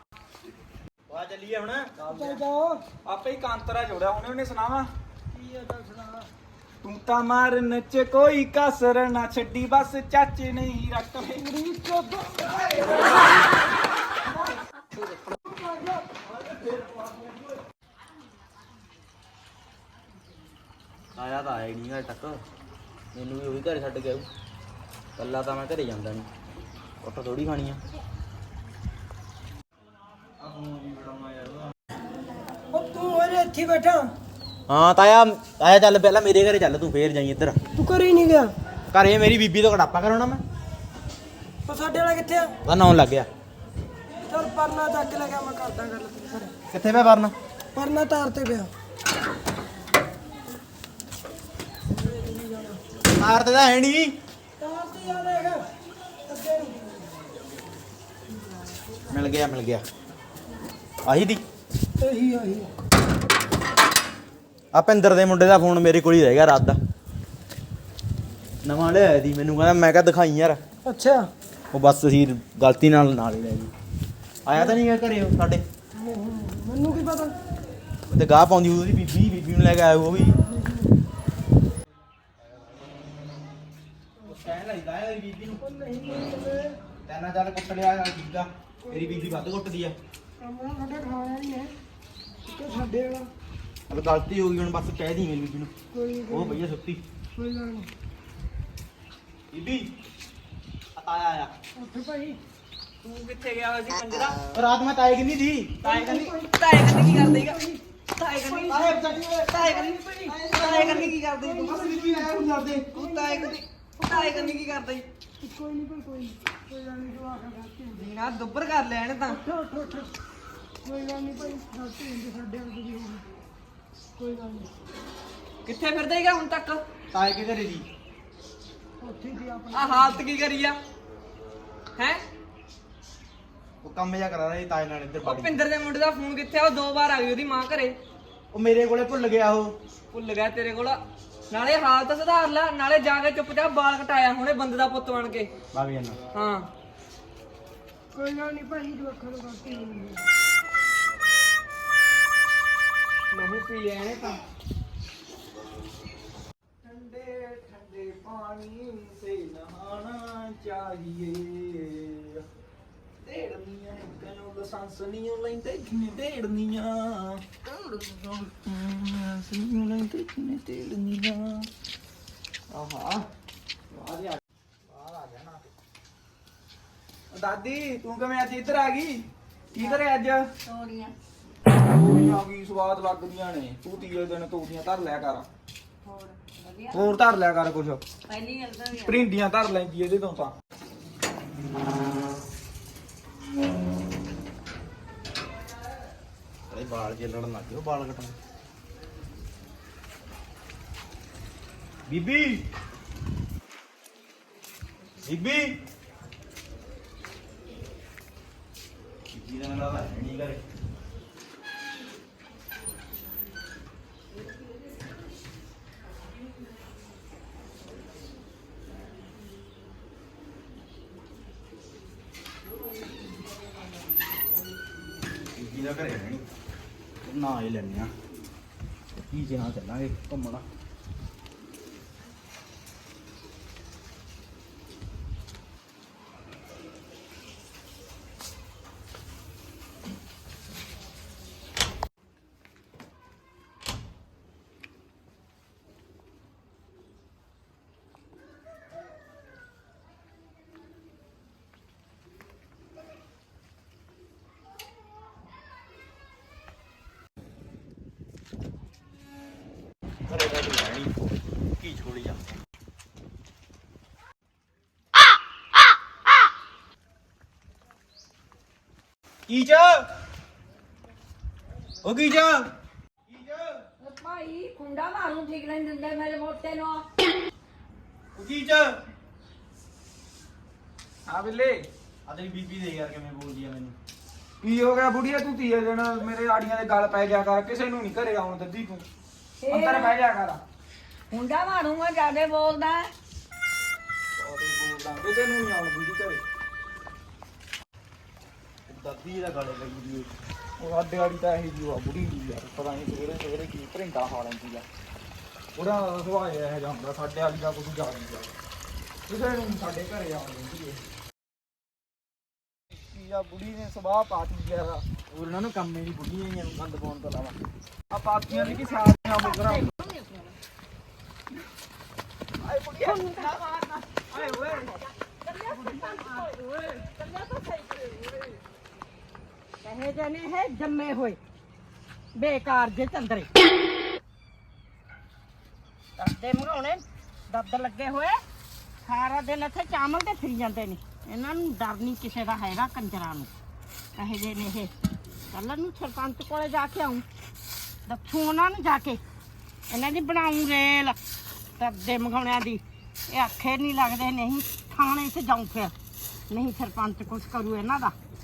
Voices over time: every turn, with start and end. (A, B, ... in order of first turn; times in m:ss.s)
0:01.1-0:01.9 A
0:02.0-0:02.4 B
0:02.1-0:02.8 C
0:03.1-0:04.9 B
0:05.3-0:06.3 C
0:06.8-0:11.5 B
0:11.4-0:13.4 C
0:15.3-0:17.3 C
0:21.2-0:22.4 A
0:23.1-0:24.3 A
0:25.2-0:26.3 A
0:27.0-0:27.8 A
0:30.4-0:31.7 A
0:32.7-0:34.1 C
0:34.7-0:37.6 A
0:37.8-0:38.5 C
0:38.9-0:40.4 A
0:41.7-0:42.5 C
0:42.6-0:43.3 A
0:44.2-0:46.5 C
0:46.7-0:47.3 A
0:47.8-0:48.7 C
0:52.0-0:52.8 C
0:53.1-0:54.2 A
0:54.6-0:55.7 C
0:56.3-0:56.9 C
0:59.1-0:59.8 A
1:01.0-1:01.4 A
1:02.0-1:02.7 C
1:04.7-1:06.8 A
1:08.6-1:10.6 A
1:10.8-1:11.3 C
1:11.7-1:13.7 A
1:14.5-1:15.6 A
1:16.0-1:17.4 C
1:18.1-1:20.4 A
1:24.2-1:25.6 A
1:25.6-1:26.8 C
1:27.1-1:30.0 A
1:28.9-1:29.4 C
1:30.4-1:31.7 C
1:32.5-1:33.3 C
1:33.9-1:35.7 A
1:35.9-1:36.6 C
1:36.3-1:37.0 A
1:37.4-1:37.9 C
1:39.5-1:39.9 A
1:41.0-1:41.5 A
1:41.8-1:42.4 C
1:43.0-1:44.4 D
1:44.5-1:46.3 A
1:45.8-1:47.6 D
1:45.9-1:47.8 C
1:48.2-1:49.0 D
1:48.4-1:54.6 C
1:48.7-1:49.9 A
1:49.6-1:51.7 D
1:50.5-1:53.0 A
1:52.9-1:55.0 D
1:55.4-1:58.1 C
1:58.0-1:59.4 D
1:59.3-2:00.1 C
2:00.8-2:03.3 C
2:04.2-2:04.7 C
2:05.7-2:06.8 D
2:07.1-2:07.9 A
2:09.0-2:10.2 C
2:09.7-2:10.8 D
2:13.8-2:15.6 A
2:15.2-2:18.0 D
2:18.5-2:19.8 A
2:20.1-2:21.0 D
2:21.5-2:25.5 D
2:25.7-2:26.2 A
2:26.3-2:26.7 D
2:28.2-2:30.2 C
2:33.4-2:34.3 D
2:36.8-2:42.4 B
2:43.2-2:47.6 B
2:48.1-2:51.7 B
2:52.7-2:53.2 B
2:53.9-2:55.7 B
2:57.3-3:00.5 B
3:00.7-3:01.0 E
3:01.8-3:05.5 B
3:06.9-3:08.0 B
3:08.3-3:08.7 E
3:08.9-3:10.5 B
3:16.7-3:18.4 A
3:22.1-3:22.6 A
3:25.2-3:25.7 A
3:29.3-3:30.6 A
3:45.6-3:46.5 A
3:47.2-3:48.1 A
3:49.3-3:50.6 A
4:20.3-4:21.1 A
4:21.8-4:22.6 A
4:29.5-4:30.0 A
4:32.0-4:32.7 A
4:33.3-4:33.8 A
4:34.0-4:37.0 E
4:38.4-4:39.0 A
4:41.3-4:41.8 B
4:42.3-4:44.0 A
4:44.6-4:49.1 B
4:49.6-4:50.2 E
4:49.7-4:50.6 B
4:51.3-4:53.1 E
4:54.4-4:56.4 B
4:58.9-5:00.3 A
5:00.8-5:04.9 B
5:05.8-5:08.5 B
5:09.3-5:11.0 B
5:13.1-5:15.0 B
5:15.3-5:17.6 A
5:18.1-5:19.9 B
5:18.5-5:20.6 F
5:22.6-5:23.6 B
5:23.0-5:28.4 F
5:24.3-5:24.9 B
5:29.8-5:31.4 F
5:32.4-5:33.5 F
5:36.2-5:38.4 F
5:39.0-5:43.5 F
5:44.2-5:44.9 F
5:45.5-5:47.2 F
5:48.1-5:49.2 F
5:49.9-5:51.2 F
5:51.8-5:52.8 F
5:53.3-5:55.9 F
5:56.5-5:58.1 F